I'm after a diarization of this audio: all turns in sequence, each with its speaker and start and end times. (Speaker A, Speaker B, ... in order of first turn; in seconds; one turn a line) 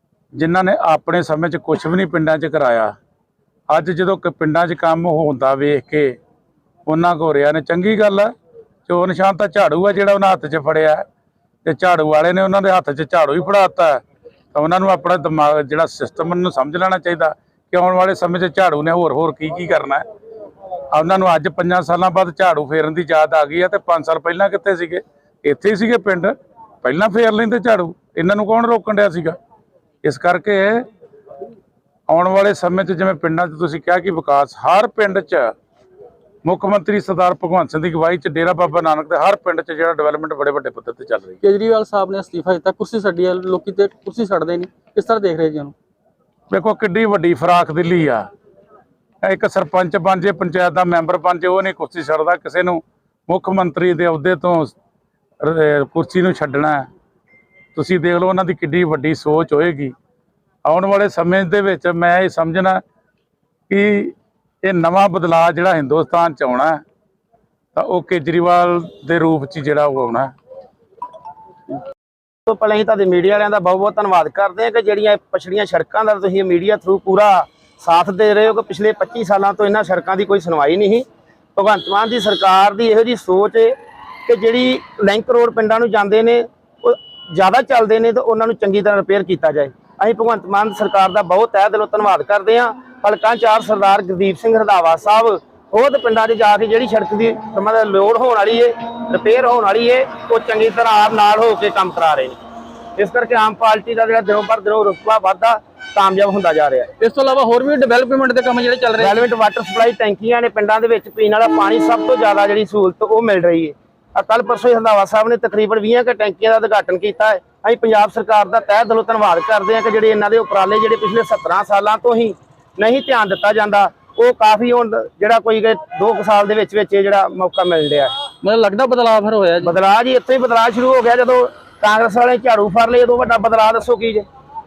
Speaker A: 0.3-2.9
Speaker A: 3.7-6.2
Speaker A: 6.8-8.3
Speaker A: 8.9-11.0
Speaker A: 11.6-14.0
Speaker A: 14.5-20.0
Speaker A: 20.9-29.4
Speaker A: 30.0-30.8
Speaker A: 32.1-35.5
Speaker A: 36.4-41.4
Speaker B: 41.4-45.7
Speaker A: 46.5-48.2
Speaker A: 49.2-54.7
Speaker A: 55.4-56.9
Speaker A: 57.7-59.9
Speaker A: 60.6-62.8
Speaker A: 63.7-66.8
Speaker A: 67.7-70.3
Speaker C: 72.5-102.4
Speaker C: 103.0-106.9
Speaker B: 107.0-109.2
Speaker C: 109.0-128.1
Speaker B: 128.4-129.7
Speaker C: 129.6-134.2